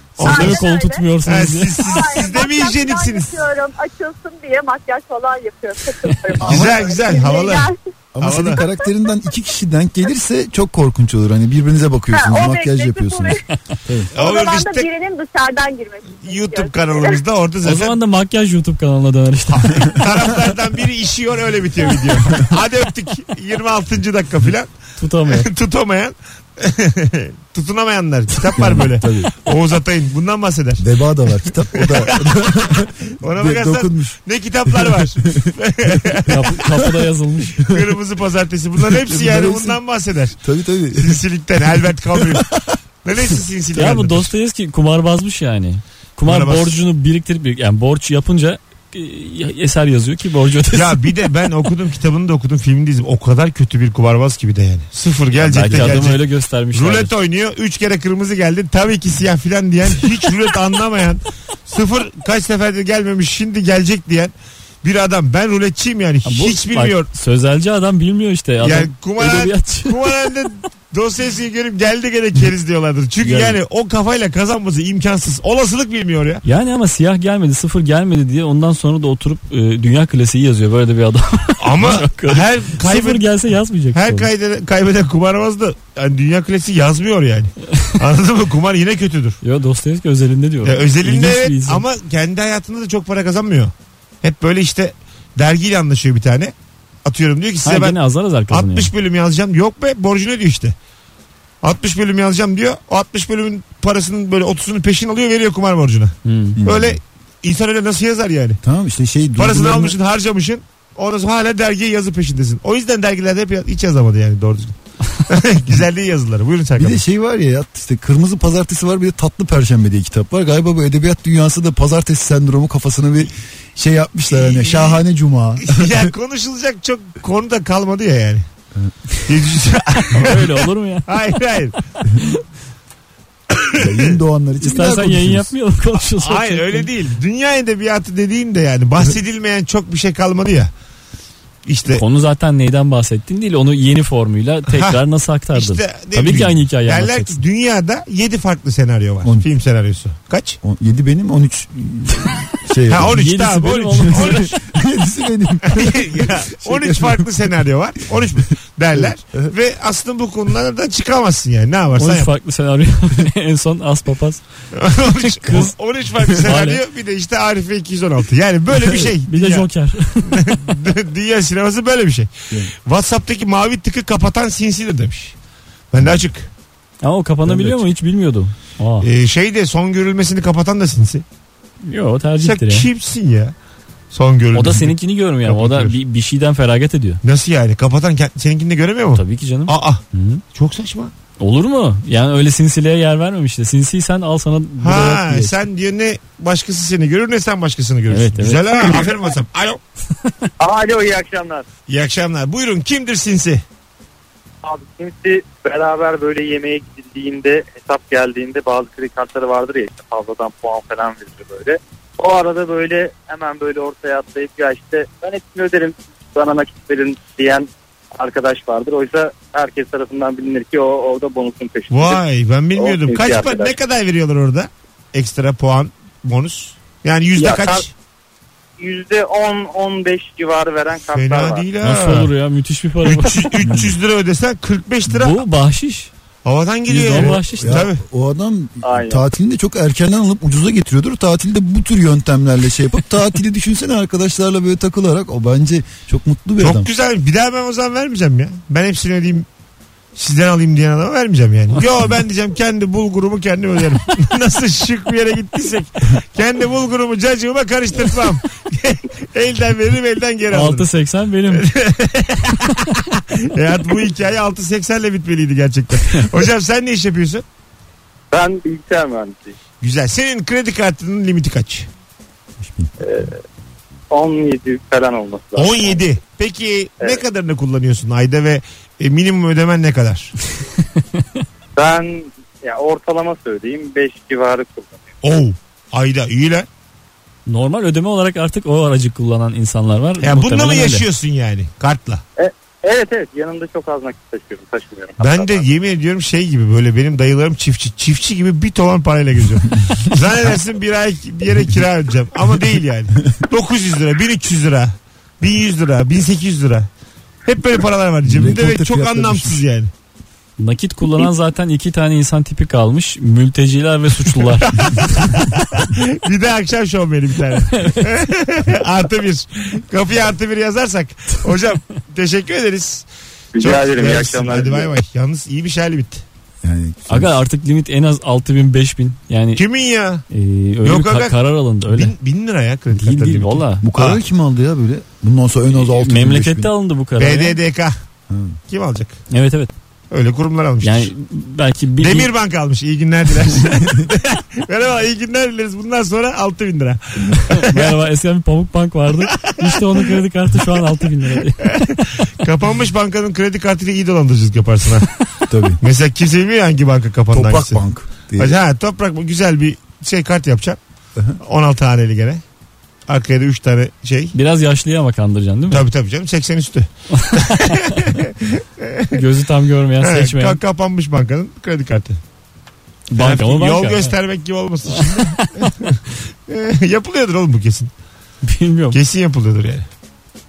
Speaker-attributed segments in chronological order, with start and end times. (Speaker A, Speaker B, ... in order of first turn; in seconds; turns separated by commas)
Speaker A: 0.1-0.7, Speaker B: 0.2-1.8, Speaker C: 0.2-1.0, Speaker A: 1.2-3.4, Speaker C: 1.8-7.8, Speaker D: 6.4-7.0, Speaker A: 6.4-8.6, Speaker D: 8.1-14.1, Speaker C: 12.1-13.4, Speaker C: 14.1-17.1, Speaker A: 14.2-14.9, Speaker A: 16.2-18.0, Speaker B: 17.6-20.0, Speaker A: 19.6-24.7, Speaker B: 25.0-25.5, Speaker A: 25.2-30.9, Speaker D: 28.5-29.3, Speaker D: 30.8-36.2, Speaker A: 31.7-36.6, Speaker B: 36.3-37.6, Speaker A: 37.6-40.4, Speaker D: 38.8-39.8, Speaker D: 40.4-41.2, Speaker A: 40.9-42.5, Speaker D: 42.1-42.5, Speaker A: 43.0-44.3, Speaker B: 43.7-51.1, Speaker A: 46.2-46.8, Speaker A: 50.7-56.2, Speaker B: 55.4-57.1, Speaker A: 56.7-67.1, Speaker B: 66.2-70.1, Speaker A: 68.6-76.4, Speaker B: 73.2-73.6, Speaker B: 76.4-84.3, Speaker A: 81.6-83.2, Speaker A: 83.9-89.4, Speaker B: 89.4-91.8, Speaker A: 90.6-96.5, Speaker A: 97.0-100.7, Speaker B: 97.6-98.9, Speaker A: 101.6-108.6, Speaker B: 106.2-106.6, Speaker D: 106.6-107.0, Speaker D: 108.6-109.9, Speaker A: 109.4-117.0, Speaker D: 116.8-126.1, Speaker A: 124.3-125.0, Speaker A: 125.6-128.4, Speaker A: 129.2-131.8, Speaker B: 130.0-131.2, Speaker A: 133.5-134.1, Speaker D: 133.7-135.5, Speaker B: 134.6-136.9, Speaker A: 136.1-140.7, Speaker A: 141.7-142.0, Speaker B: 141.9-147.4, Speaker A: 144.7-145.0, Speaker A: 145.5-150.6, Speaker D: 150.6-153.3, Speaker A: 152.9-154.6, Speaker B: 153.1-154.5, Speaker D: 154.1-157.5, Speaker A: 155.6-162.3, Speaker D: 158.9-159.5, Speaker B: 161.9-164.4, Speaker A: 164.7-169.7, Speaker B: 165.0-165.7, Speaker B: 166.3-166.8, Speaker B: 168.9-170.7, Speaker A: 170.2-175.3, Speaker A: 175.9-176.5, Speaker B: 177.0-179.1, Speaker D: 177.4-177.8, Speaker A: 179.0-181.2, Speaker B: 181.8-182.9, Speaker A: 182.4-183.5, Speaker A: 184.1-186.0, Speaker B: 184.5-187.2, Speaker A: 187.2-190.0, Speaker B: 189.1-190.4, Speaker A: 190.5-191.1, Speaker B: 191.4-195.5, Speaker A: 194.8-199.8, Speaker B: 198.1-199.0, Speaker E: 200.6-201.6, Speaker A: 201.9-203.6, Speaker E: 204.6-222.2, Speaker A: 221.9-227.9, Speaker E: 222.7-223.7, Speaker E: 227.3-227.8, Speaker E: 228.8-231.7, Speaker A: 231.1-232.3, Speaker B: 231.8-233.5, Speaker A: 233.0-235.4, Speaker D: 233.6-233.9, Speaker B: 235.1-236.1, Speaker A: 236.4-238.0, Speaker B: 236.9-237.8, Speaker D: 237.1-246.9, Speaker E: 238.8-239.2, Speaker A: 246.6-249.5, Speaker A: 250.2-260.9, Speaker B: 260.5-261.6, Speaker A: 261.5-267.4, Speaker E: 268.3-269.6, Speaker A: 269.8-271.9, Speaker D: 272.6-272.9, Speaker E: 273.0-273.4, Speaker E: 274.1-276.0, Speaker A: 275.6-280.3, Speaker E: 281.8-285.0, Speaker A: 285.2-286.7, Speaker B: 287.5-291.1, Speaker A: 290.2-292.2, Speaker E: 292.4-295.6, Speaker A: 295.2-306.9, Speaker A: 307.4-309.9, Speaker D: 308.2-309.6, Speaker B: 310.6-314.8, Speaker A: 314.4-323.1, Speaker B: 317.7-318.1, Speaker E: 323.5-324.9, Speaker A: 323.6-326.2, Speaker D: 326.6-327.4, Speaker B: 327.1-329.6, Speaker A: 329.6-330.2, Speaker B: 330.3-332.1, Speaker A: 330.8-334.2, Speaker D: 332.9-336.7, Speaker B: 333.1-333.8, Speaker B: 335.7-337.6, Speaker A: 337.2-337.9, Speaker D: 338.3-338.6, Speaker A: 338.7-339.1, Speaker B: 339.3-339.7, Speaker A: 340.1-341.1, Speaker B: 340.8-342.3, Speaker A: 342.0-347.9, Speaker B: 347.5-351.8, Speaker A: 349.3-350.1, Speaker A: 351.6-355.1, Speaker D: 355.5-355.8, Speaker A: 355.8-357.8, Speaker D: 357.3-358.6, Speaker A: 358.4-360.8, Speaker A: 361.4-362.4, Speaker A: 363.1-364.3, Speaker B: 364.3-365.8, Speaker A: 365.7-369.2, Speaker B: 367.1-368.1, Speaker B: 369.1-370.6, Speaker A: 370.0-372.2, Speaker B: 373.1-374.1, Speaker A: 373.2-377.9, Speaker B: 374.9-375.7, Speaker B: 378.4-379.0, Speaker A: 378.9-379.9